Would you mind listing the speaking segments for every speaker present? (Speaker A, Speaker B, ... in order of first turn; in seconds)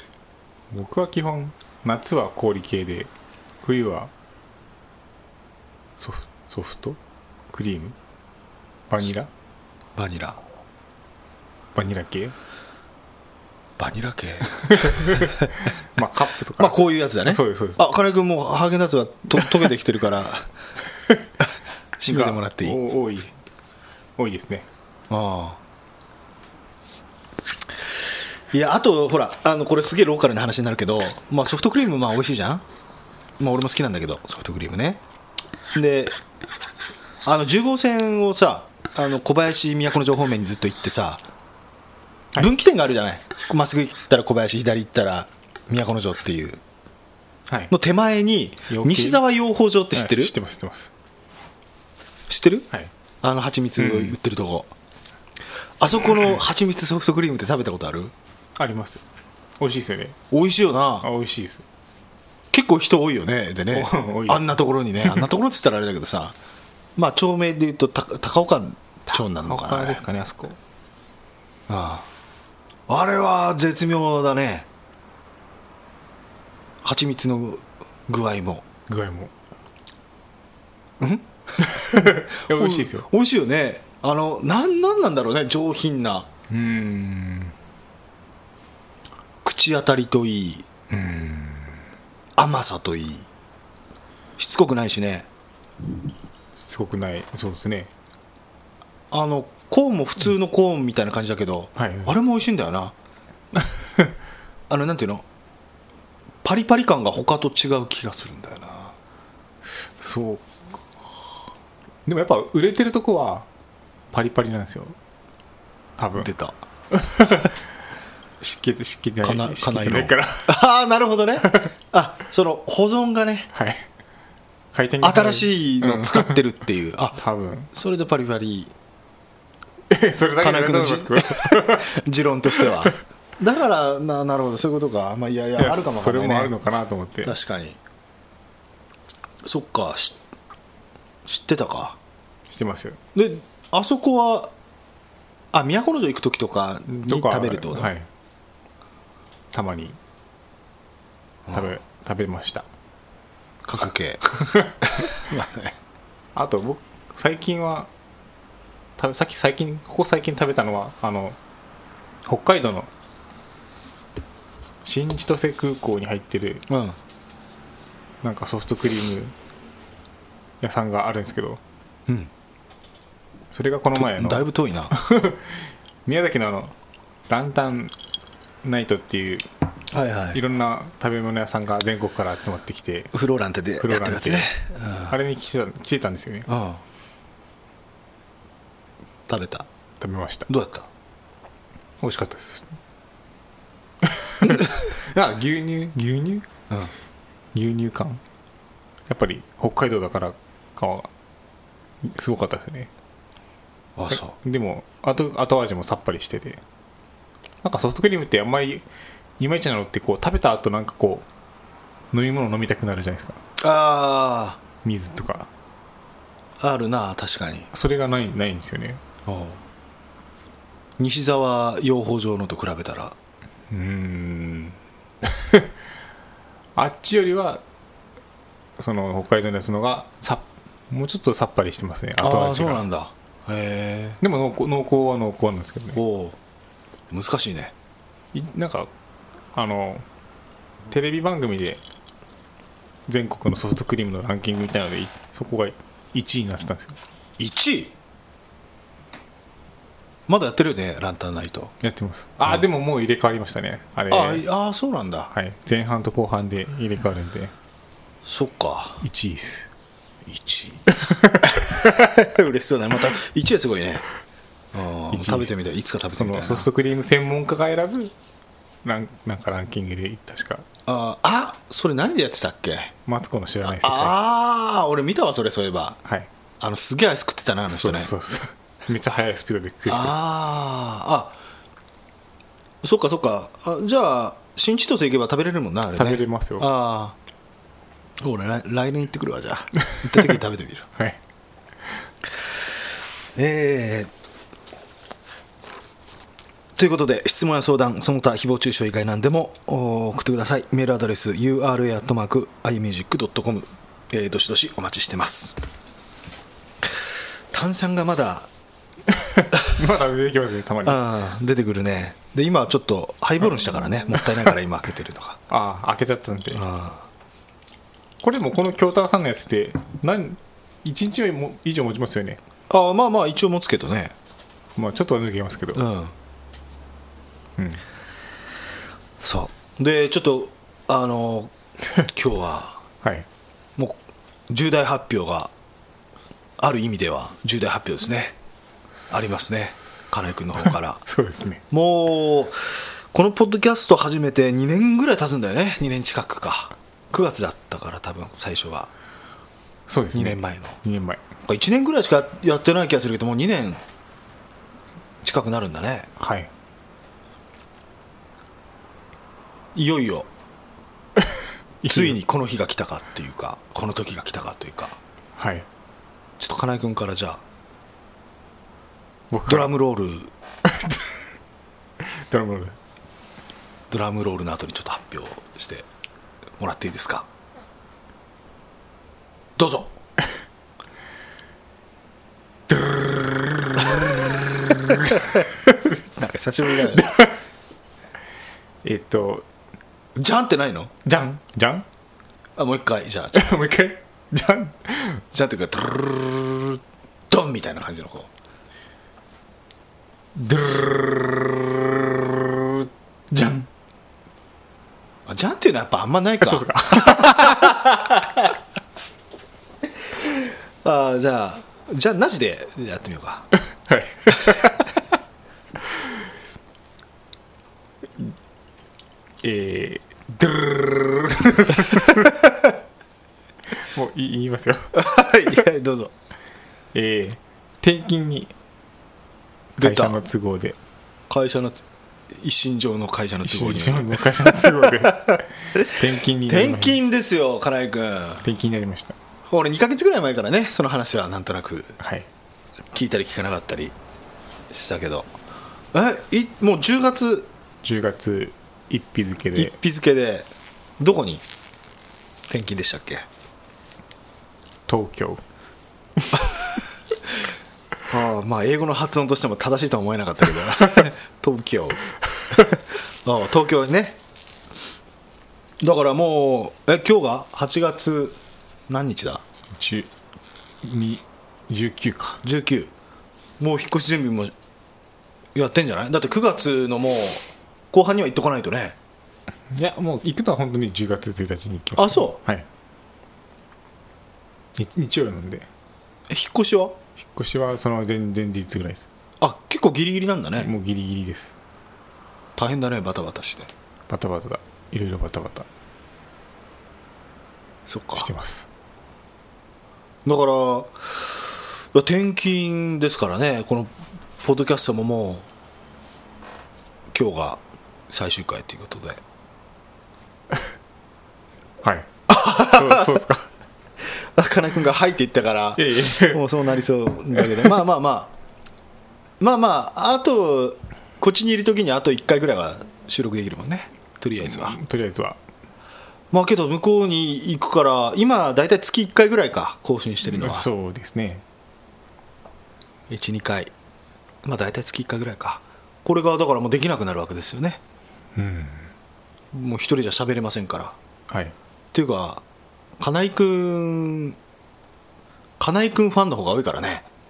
Speaker A: 0.7-3.1, 3.6-4.1, 6.0-7.0, 7.5-8.0, 8.9-9.3, 11.7-12.3, 14.5-17.8, 22.1-23.3, 24.2-24.7, 48.7-49.2, 49.9-50.9, 53.8-54.1, 58.6-59.0, 59.6-60.2, 61.0-61.6, 63.7-65.3, 69.1-70.6, 78.9-79.3, 81.6-83.1, 86.5-87.5, 90.9-91.8, 96.6-97.9, 101.8-102.2, 103.6-104.1, 110.0-110.6, 112.0-113.5, 114.1-115.0, 116.0-116.3, 116.9-117.6, 118.4-120.5, 121.4-121.7, 123.5-123.8, 124.7-126.4, 127.2-127.7, 129.9-132.0, 132.5-132.9, 135.6-137.3, 142.5-143.0, 146.9-148.1, 149.5-150.0, 151.5-152.7, 154.3-155.2, 156.3-157.9, 159.0-161.4, 162.2-162.9, 164.8-166.7, 168.2-169.3, 170.6-171.6, 173.5-176.7, 177.3-177.9, 178.6-179.4, 180.3-183.1, 183.8-184.5, 185.1-186.5, 190.0-190.5, 192.0-192.7, 194.0-196.5, 197.5-198.2, 199.1-201.1, 202.0-202.9, 204.1-206.6, 207.6-208.8, 209.4-211.2, 212.1-213.4, 214.8-215.5, 217.7-219.0, 223.7-225.7, 226.8-227.6, 228.8-232.8, 234.2-236.0, 238.3-238.9, 239.5-240.1, 240.9-241.8, 243.1-247.0, 251.8-254.4, 255.3-257.5, 259.0-259.7, 260.9-262.0, 265.1-265.5, 266.1-268.1, 268.8-270.6, 273.1-274.1, 277.7-280.2, 285.9-286.7, 289.9-290.3, 309.1-311.0, 315.5-316.6, 318.2-322.4, 324.8-325.8, 327.6-327.8, 333.0-333.3, 340.6-341.6, 349.9-351.2, 356.2-356.5, 361.2-362.2, 365.4-365.7, 369.3-369.7, 370.6-371.1, 372.0-372.8, 382.7-386.0, 386.8-387.4, 388.8-389.4, 391.0-391.8, 393.3-395.2, 400.3-403.7, 406.4-407.8, 413.5-414.9, 415.8-416.2, 419.4-422.4, 423.8-425.0, 426.9-428.5, 429.8-430.8, 433.4-437.0, 438.4-439.2, 442.0-442.3, 447.8-449.8, 454.9-455.4, 456.2-456.8, 469.8-470.1, 470.8-472.4, 479.7-482.7, 484.8-485.7, 487.2-489.1, 490.6-491.5, 494.1-495.7, 498.1-498.7, 511.8-513.5, 515.8-516.6, 517.3-517.8, 524.4-525.4, 530.2-531.4, 538.4-538.9, 541.3-541.5
Speaker B: 9.9-10.4, 13.8-15.5, 16.6-20.5, 22.0-22.8, 25.1-25.6, 28.5-32.6, 33.4-35.0, 35.7-36.1, 37.2-41.2, 42.4-46.6, 47.7-50.3, 52.3-52.7, 53.2-54.7, 55.8-58.1, 60.3-61.0, 62.5-66.3, 67.0-70.0, 71.7-72.1, 72.9-74.7, 76.8-78.6, 81.0-86.3, 89.4-90.7, 92.4-93.3, 94.4-95.3, 99.1-102.9, 104.7-105.2, 106.4-109.0, 116.2-116.6, 119.2-123.5, 125.0-127.2, 127.7-128.7, 130.4-136.5, 137.2-137.8, 139.4-140.2, 141.2-142.0, 143.1-144.5, 145.5-147.9, 153.6-154.2, 154.8-155.8, 166.7-167.0, 173.9-174.9, 179.9-180.4, 183.1-185.2, 186.5-186.8, 189.3-189.7, 190.5-190.9, 203.9-204.3, 213.6-214.6, 216.6-217.7, 219.2-219.6, 221.0-223.2, 232.2-234.2, 235.9-236.4, 237.1-237.7, 247.4-247.9, 250.3-251.7, 254.1-255.3, 258.2-259.0, 260.2-260.8, 261.4-264.0, 264.7-266.7, 270.9-272.9, 273.6-276.0, 276.6-278.1, 279.9-281.4, 282.8-287.1, 288.2-290.9, 293.4-294.1, 296.8-305.6, 307.5-308.5, 310.8-315.4, 316.5-317.1, 322.7-324.1, 325.7-326.1, 329.2-332.8, 334.5-335.5, 336.6-338.3, 339.1-341.0, 341.7-348.9, 350.1-350.8, 351.4-353.8, 355.2-356.1, 359.7-360.3, 361.9-365.0, 366.4-367.4, 369.5-370.3, 373.9-375.9, 376.6-377.3, 379.6-379.9, 383.8-384.3, 386.1-387.1, 390.1-390.9, 392.6-393.5, 395.3-398.3, 405.2-408.5, 410.0-413.5, 424.9-426.1, 429.8-430.2, 431.3-435.9, 436.5-438.4, 439.4-442.0, 442.9-443.9, 444.7-445.3, 445.9-447.5, 449.5-450.5, 451.0-451.4, 452.5-453.2, 458.1-462.0, 462.5-464.2, 465.8-468.4, 468.9-469.4, 472.4-472.9, 473.6-474.5, 475.5-478.9, 481.9-482.4, 486.3-487.0, 489.4-490.7, 492.6-493.7, 497.9-498.3, 500.2-501.2, 501.9-505.5, 507.1-509.2, 512.3-513.2, 514.0-518.3, 519.4-524.8, 526.3-530.7, 533.1-533.7, 534.4-537.8, 539.5-541.0, 541.9-542.4, 543.0-544.4, 545.6-547.1